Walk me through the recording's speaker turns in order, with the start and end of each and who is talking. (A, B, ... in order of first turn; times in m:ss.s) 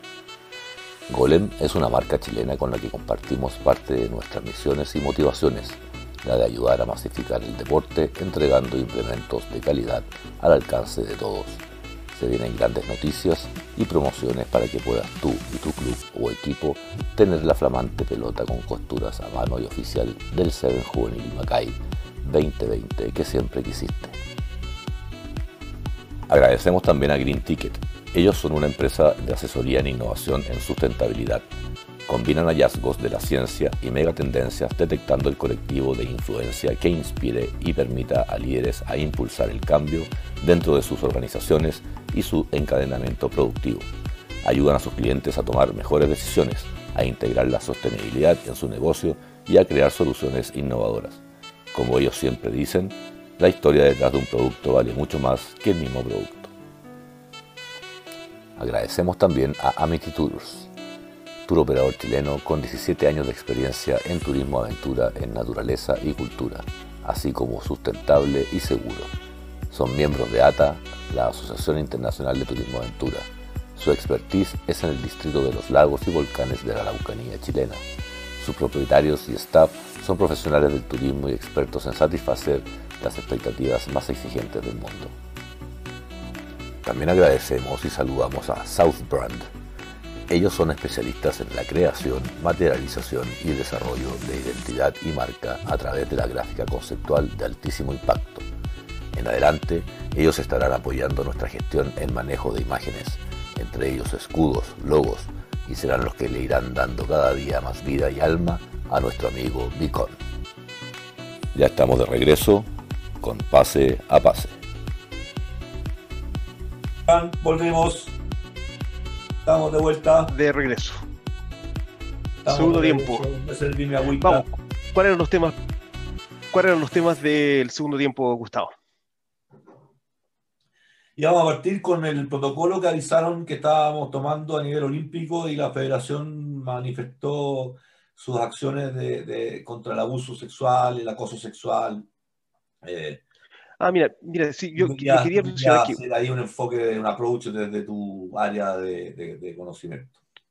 0:01.1-0:11.6 A
0:12.1-0:24.2 A
0:26.3-0:31.4 A
0:32.1-0:43.9 A
0:44.4-0:51.2 A
0:51.7-0:56.5 A
0:58.6-1:00.7 A
1:01.4-1:09.1 A
1:09.7-1:17.8 A
1:18.4-1:25.1 A
1:26.8-1:29.5 A
1:30.3-1:38.4 A
1:39.1-1:50.2 A
1:51.5-1:52.7 A
1:53.2-1:54.6 A
1:57.1-1:58.2 B
1:59.4-2:00.3 B
2:00.3-2:01.0 C
2:02.4-2:04.4 B
2:02.5-2:03.3 C
2:04.2-2:05.6 C
2:06.5-2:08.7 C
2:11.2-2:22.1 B
2:22.8-2:23.2 B
2:23.8-2:26.0 C
2:24.8-2:30.2 B